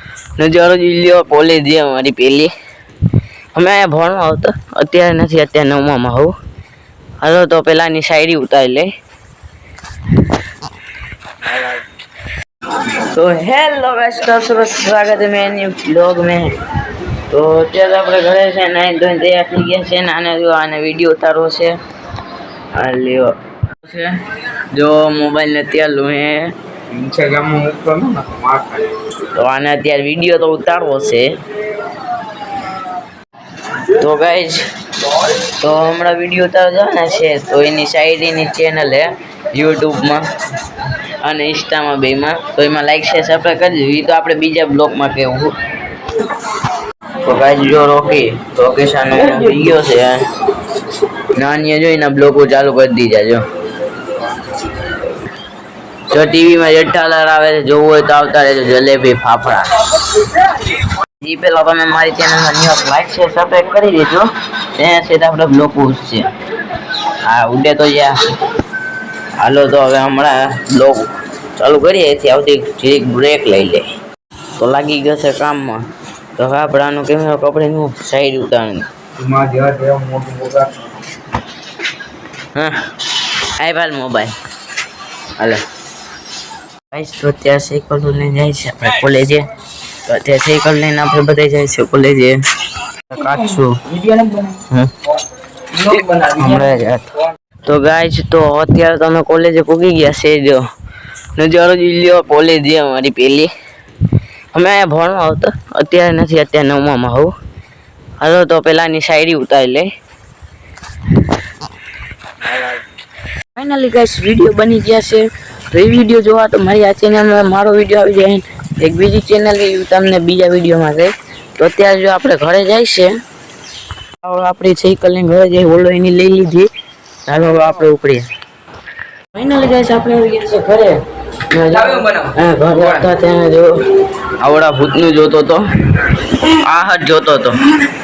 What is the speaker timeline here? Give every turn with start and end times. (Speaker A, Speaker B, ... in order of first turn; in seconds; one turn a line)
Speaker A: 0.4-2.5
Speaker A: 3.5-6.3
Speaker A: 7.2-8.9
Speaker A: 12.8-16.6
Speaker A: 17.3-21.8
Speaker A: 22.7-26.5
Speaker B: 26.9-28.9
Speaker A: 29.2-31.4
Speaker A: 33.7-45.6
Speaker A: 47.2-50.3
Speaker A: 51.3-53.4
Speaker A: 56.1-59.8
Speaker A: 60.4-60.7
Speaker A: 61.2-66.3
Speaker A: 67.2-68.2
Speaker A: 69.4-73.9
Speaker A: 74.6-78.8
Speaker B: 79.2-80.9
Speaker A: 82.5-84.3
Speaker A: 85.4-85.6
Speaker A: 86.9-89.5
Speaker A: 90.0-92.4
Speaker A: 93.1-93.9
Speaker B: 93.9-94.6
Speaker B: 95.7-96.8
Speaker A: 95.8-97.1
Speaker A: 97.6-100.6
Speaker A: 101.3-103.5
Speaker A: 104.5-107.3
Speaker A: 108.2-109.9
Speaker A: 113.5-123.2
Speaker A: 124.2-126.7
Speaker A: 127.3-128.3
Speaker A: 129.3-137.7
Speaker B: 131.7-132.3